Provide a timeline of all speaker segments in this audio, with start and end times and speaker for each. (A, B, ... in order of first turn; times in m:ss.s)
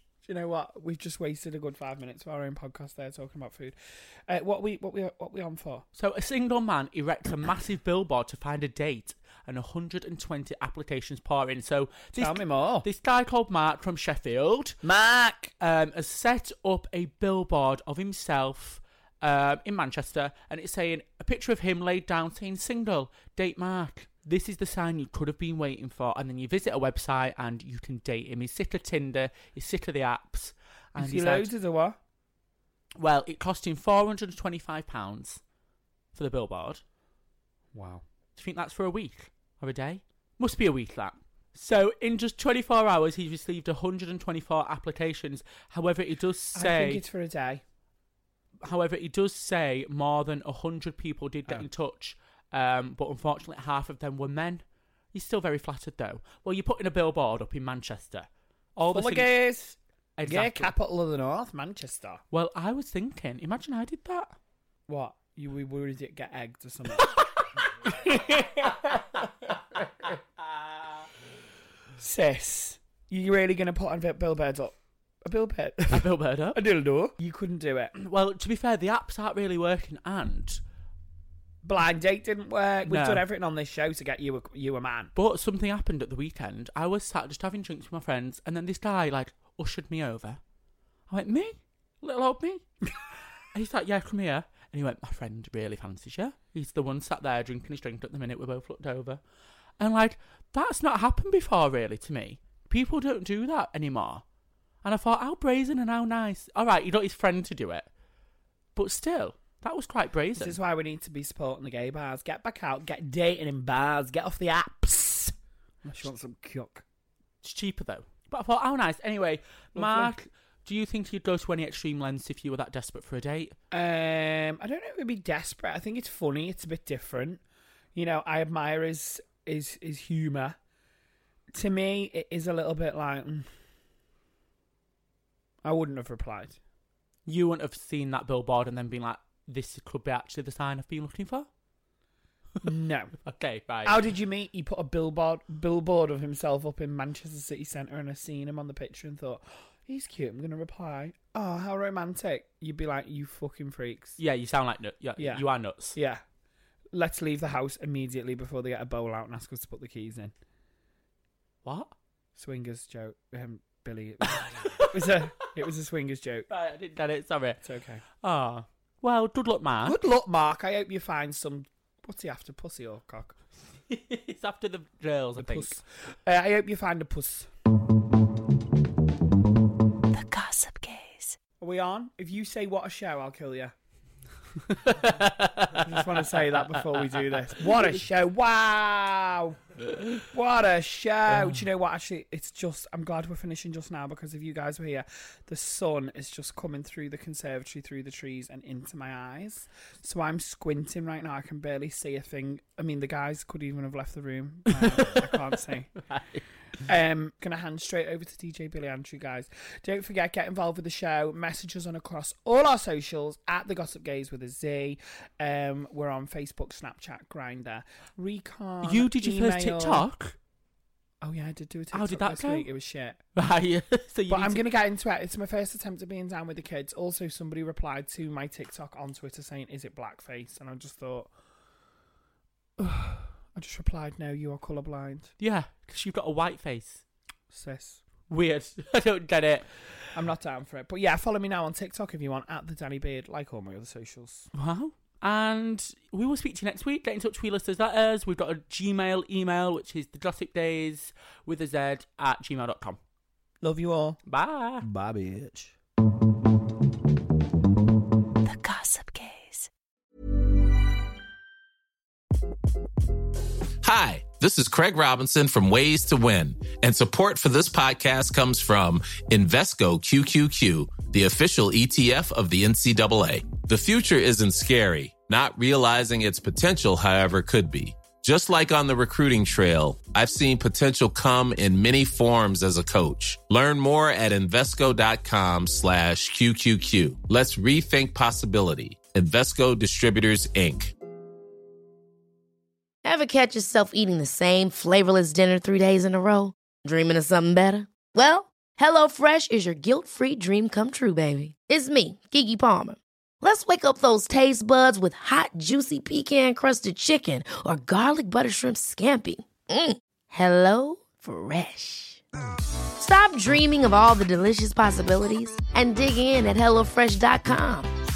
0:00.2-0:03.8 A
0:04.3-0:05.8 A
0:05.9-0:14.8 B
0:12.2-0:12.9 A
0:14.8-0:15.5 A
0:15.6-0:31.5 B
0:31.0-0:32.0 A
0:33.0-0:35.4 B
0:36.1-0:36.8 B
0:37.7-0:38.0 A
0:38.4-0:47.0 B
0:46.6-0:47.6 A
0:48.6-0:59.4 B
0:58.9-1:02.2 A
1:00.2-1:00.7 B
1:02.3-1:04.4 B
1:04.9-1:10.2 A
1:12.0-1:18.0 A
1:15.9-1:16.6 B
1:18.0-1:20.6 B
1:21.6-1:25.1 A
1:22.8-1:23.2 B
1:25.2-1:30.4 B
1:31.1-1:32.7 B
1:33.5-1:39.2 B
1:39.8-1:44.2 B
1:44.8-1:47.9 B
1:48.8-1:50.6 B
1:50.4-1:55.3 A
1:55.8-1:56.8 A
1:57.4-2:03.6 B
1:59.8-2:00.1 A
2:03.7-2:07.4 A
2:08.0-2:10.6 A
2:11.5-2:13.5 A
2:15.6-2:16.6 A
2:17.3-2:21.5 B
2:22.6-2:23.2 A
2:23.2-2:24.0 B
2:23.8-2:34.2 A
2:34.2-2:36.0 B
2:35.2-2:36.2 A
2:36.9-2:40.3 A
2:41.6-2:41.9 B
2:42.4-2:46.5 A
2:44.3-2:45.2 B
2:46.5-2:47.6 B
2:47.6-2:48.0 A
2:48.2-2:50.0 B
2:49.8-2:53.4 A
2:53.9-2:55.8 B
2:55.4-2:57.5 A
3:00.1-3:01.4 C
3:01.6-3:03.7 A
3:04.7-3:06.3 B
3:05.8-3:09.7 A
3:09.9-3:10.2 B
3:10.2-3:26.1 A
3:11.3-3:11.6 B
3:24.9-3:25.2 B
3:26.1-3:26.4 B
3:26.8-3:40.1 A
3:38.8-3:40.4 B
3:41.2-3:43.2 A
3:41.9-3:42.7 B
3:43.4-3:44.7 B
3:44.3-3:51.3 A
3:52.8-3:55.3 A
3:55.4-3:57.0 B
3:57.5-3:58.0 A
3:58.3-3:59.7 B
4:00.2-4:04.5 A
4:04.5-4:13.0 B
4:13.6-4:14.2 A
4:14.2-4:14.9 B
4:14.8-4:15.7 A
4:18.4-4:19.7 C
4:23.8-4:50.9 D
4:53.0-5:12.2 E
5:13.0-5:17.9 E